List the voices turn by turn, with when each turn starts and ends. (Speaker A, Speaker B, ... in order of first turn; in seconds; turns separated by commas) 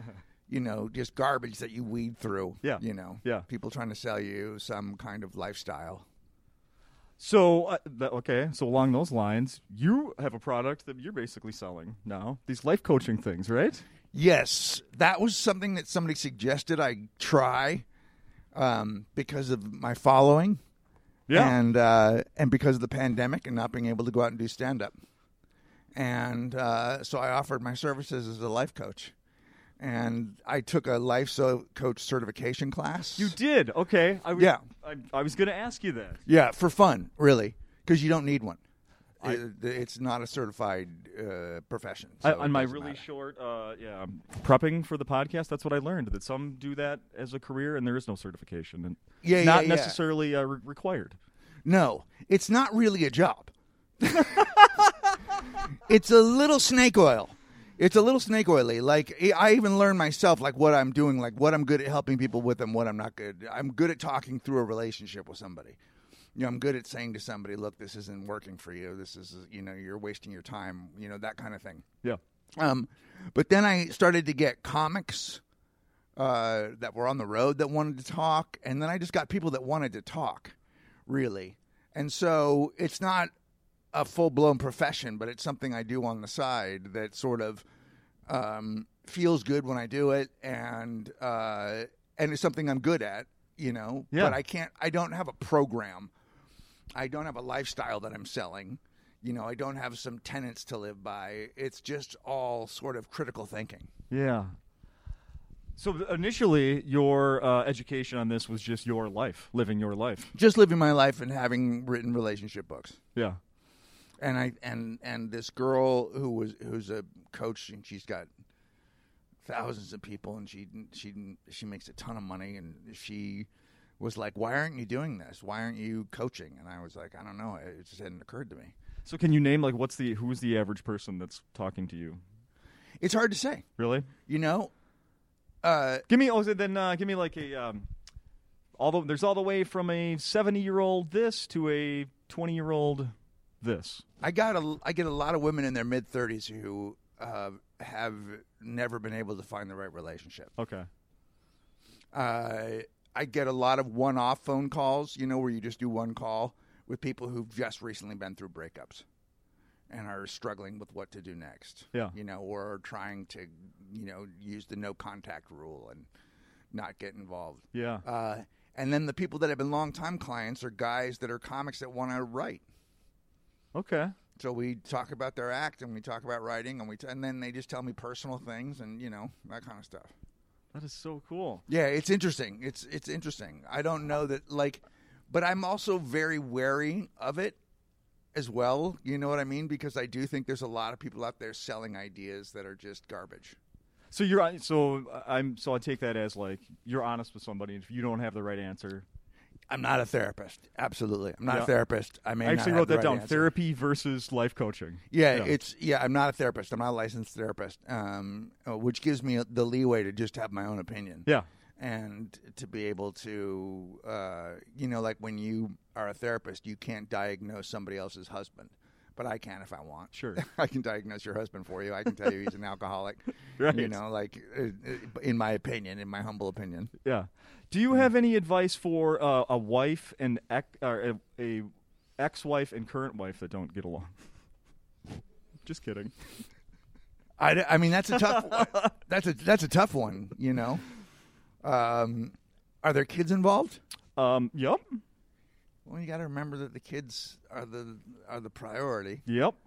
Speaker A: 0.5-6.0, Speaker B: 2.6-3.5, Speaker B: 7.2-13.8, Speaker A: 14.1-17.8, Speaker A: 18.5-20.6, Speaker B: 21.3-21.6, Speaker A: 21.3-24.9, Speaker A: 25.9-29.1, Speaker A: 29.8-33.4, Speaker B: 33.2-36.2, Speaker A: 34.3-34.6, Speaker A: 36.3-38.6, Speaker A: 39.2-43.0, Speaker B: 42.2-51.2, Speaker A: 49.2-50.0, Speaker A: 51.6-54.9, Speaker A: 55.5-65.8, Speaker A: 66.3-71.8, Speaker A: 72.6-75.4, Speaker A: 76.2-80.5, Speaker A: 81.1-83.3, Speaker A: 83.9-87.6, Speaker A: 88.3-96.1, Speaker B: 94.1-94.4, Speaker A: 96.9-103.9, Speaker B: 104.1-104.5, Speaker B: 105.8-110.3, Speaker A: 110.3-113.0, Speaker A: 114.2-118.3, Speaker A: 119.4-128.7, Speaker B: 129.1-132.2, Speaker A: 133.0-133.6, Speaker B: 133.8-134.1, Speaker A: 134.3-134.7, Speaker A: 135.6-136.0, Speaker B: 136.1-137.9, Speaker B: 138.8-144.0, Speaker A: 144.2-150.5, Speaker B: 150.6-150.9, Speaker A: 152.1-159.0, Speaker A: 159.9-166.1, Speaker A: 166.7-172.6, Speaker B: 167.7-168.0, Speaker B: 173.7-174.1, Speaker A: 174.3-180.1, Speaker B: 180.7-181.6, Speaker A: 181.7-187.6, Speaker A: 188.3-193.6, Speaker B: 194.1-199.0, Speaker A: 199.7-203.5, Speaker B: 202.4-205.5, Speaker A: 205.1-211.3, Speaker A: 211.8-226.9, Speaker B: 220.1-220.4, Speaker B: 223.6-224.0, Speaker B: 227.0-234.1, Speaker B: 235.6-236.1, Speaker A: 237.4-240.8, Speaker B: 238.3-238.9, Speaker A: 241.6-243.8, Speaker B: 244.2-245.0, Speaker A: 245.8-249.2, Speaker B: 249.2-249.6